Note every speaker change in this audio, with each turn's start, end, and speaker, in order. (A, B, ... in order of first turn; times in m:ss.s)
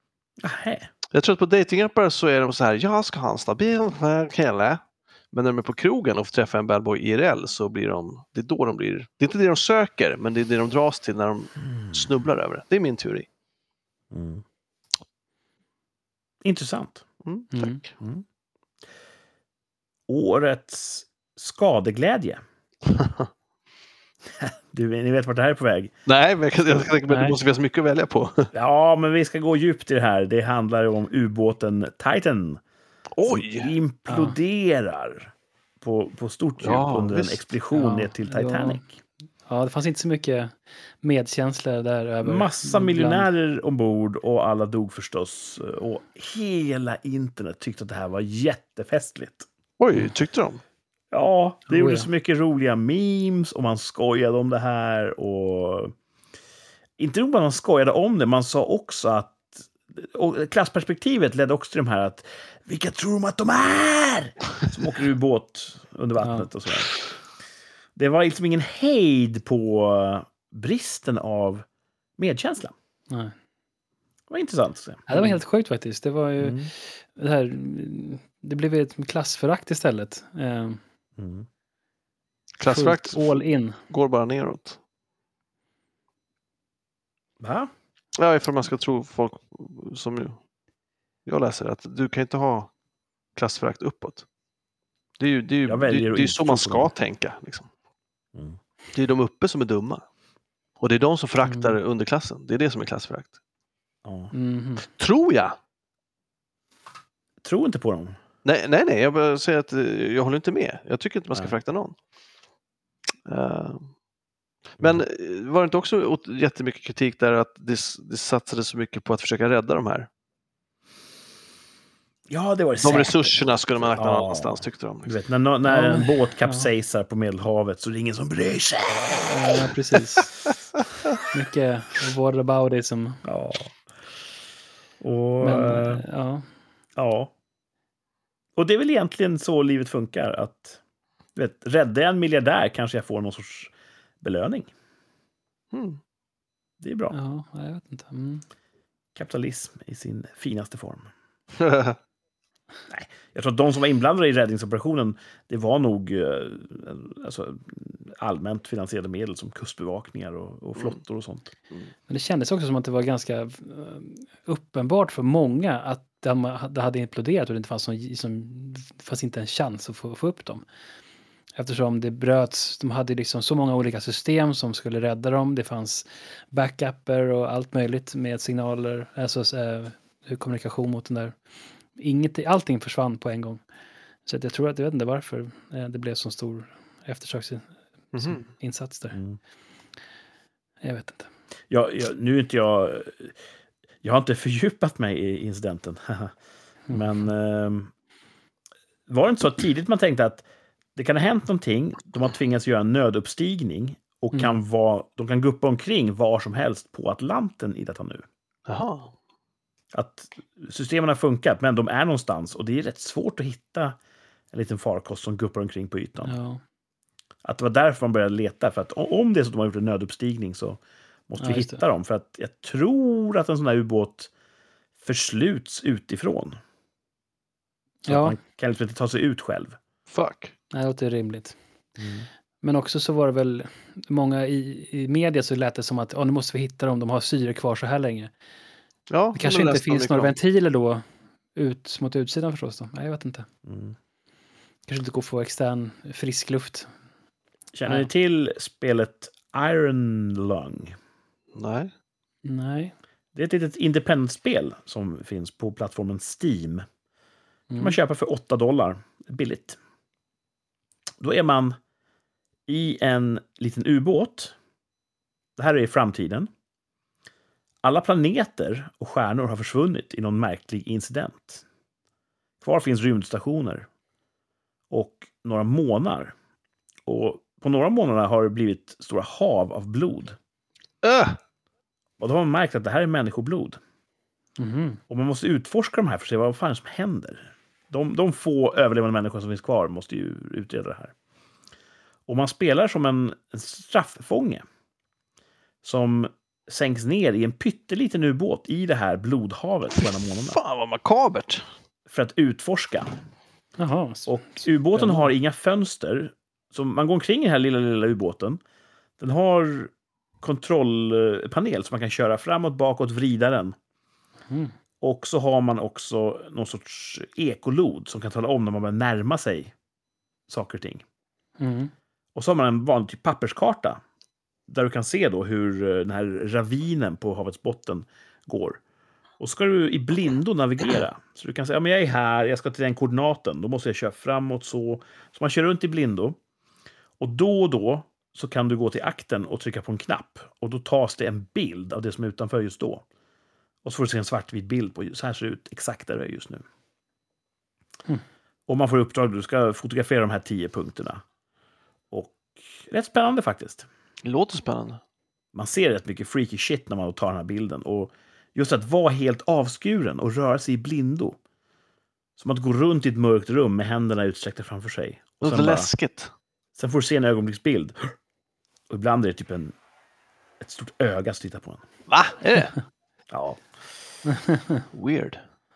0:00.4-0:00.9 A
0:01.1-0:13.3 B
0:14.1-0:14.4 A
0:16.4-0:17.0 A
0:17.2-0:17.7 B
0:17.5-0:17.8 C
0:20.1-0:22.4 A
0:23.0-0:23.2 B
0:24.3-0:25.9 A
0:26.0-0:28.5 B
0:27.1-0:27.4 C
0:28.5-0:32.6 A
0:33.2-0:33.7 B
0:33.2-0:38.9 A
0:34.1-0:34.4 C
0:36.6-0:37.4 B
0:37.7-0:38.8 C
0:39.5-0:43.3 C
0:42.2-0:49.5 A
0:49.8-0:50.6 B
0:51.1-0:55.9 A
0:51.7-0:52.1 C
0:57.0-1:06.9 A
1:06.2-1:06.5 C
1:08.0-1:11.6 A
1:12.2-1:12.7 A
1:14.3-1:15.4 A
1:15.1-1:20.8 C
1:16.4-1:16.7 A
1:21.2-1:21.5 A
1:22.6-1:23.3 B
1:22.7-1:23.8 C
1:23.9-1:24.8 B
1:27.4-1:27.7 A
1:28.2-1:30.4 B
1:31.2-1:32.7 B
1:33.4-1:34.2 B
1:35.2-1:37.7 B
1:35.6-1:36.9 A
1:38.9-1:40.0 B
1:40.8-1:43.3 B
1:41.4-1:41.8 C
1:44.0-1:44.3 A
1:44.3-1:44.8 C
1:44.9-1:45.6 B
1:47.4-1:48.2 A
1:48.4-1:52.0 B
1:53.2-1:53.9 B
1:54.8-1:55.0 A
1:54.8-2:00.1 B
2:02.3-2:09.6 A
2:02.8-2:05.2 B
2:05.7-2:06.7 C
2:09.2-2:10.3 C
2:11.3-2:13.2 C
2:13.2-2:13.8 A
2:15.0-2:16.0 A
2:15.4-2:16.4 C
2:17.0-2:17.3 A
2:18.6-2:20.8 A
2:21.3-2:24.7 A
2:25.7-2:26.0 B
2:26.8-2:27.2 A
2:27.1-2:28.4 C
2:29.1-2:31.1 A
2:31.6-2:32.0 B
2:32.9-2:41.5 A
2:42.1-2:50.6 C
2:51.6-3:01.4 C
3:02.0-3:03.6 C
3:04.2-3:09.2 C
3:08.1-3:08.5 B
3:09.1-3:09.4 A
3:10.8-3:11.3 C
3:11.7-3:13.3 A
3:14.0-3:16.3 A
3:16.9-3:17.9 A
3:19.1-3:20.4 A
3:21.0-3:28.2 A
3:28.7-3:29.1 B
3:29.9-3:34.0 A
3:34.5-3:36.4 A
3:36.2-3:36.6 C
3:37.4-3:44.3 A
3:41.4-3:41.8 C
3:45.0-3:46.6 A
3:48.0-3:48.4 C
3:48.1-3:49.8 A
3:50.1-3:50.5 B
3:50.7-3:51.5 C
3:52.0-3:52.3 A
3:52.6-3:58.3 C
3:59.1-4:00.3 B
3:59.3-4:01.0 C
4:01.6-4:03.5 C
4:03.6-4:03.9 A
4:04.9-4:06.9 C
4:07.7-4:10.9 A
4:11.5-4:11.9 B
4:12.4-4:12.9 C
4:13.3-4:16.8 A
4:17.7-4:18.0 C
4:17.8-4:19.8 A
4:21.2-4:21.8 A
4:22.7-4:24.5 A
4:25.6-4:26.5 A
4:27.8-4:31.6 A
4:32.6-4:33.9 A
4:34.9-4:36.3 A
4:37.0-4:40.4 A
4:41.0-4:41.4 B
4:42.2-4:43.8 A
4:44.6-4:45.0 C
4:45.1-4:51.1 A
4:52.3-4:54.6 A
4:55.8-5:00.6 A
5:00.4-5:01.6 B
5:02.1-5:03.2 A
5:03.8-5:05.3 C
5:04.3-5:08.6 A
5:09.2-5:13.7 A
5:15.0-5:19.7 A
5:20.5-5:21.0 A
5:21.6-5:21.9 C
5:22.3-5:24.0 A
5:24.7-5:28.8 A
5:29.4-5:36.4 A
5:37.2-5:43.0 A
5:43.8-5:46.6 A
5:48.7-5:51.2 A
5:52.1-5:53.8 A
5:54.2-5:55.0 B
5:55.5-6:01.4 A
6:02.4-6:05.9 A
6:05.4-6:06.3 B
6:06.8-6:08.1 A
6:08.9-6:09.8 A
6:10.6-6:11.8 A
6:12.1-6:12.7 B
6:13.3-6:13.6 A
6:14.2-6:14.8 C
6:14.9-6:15.4 B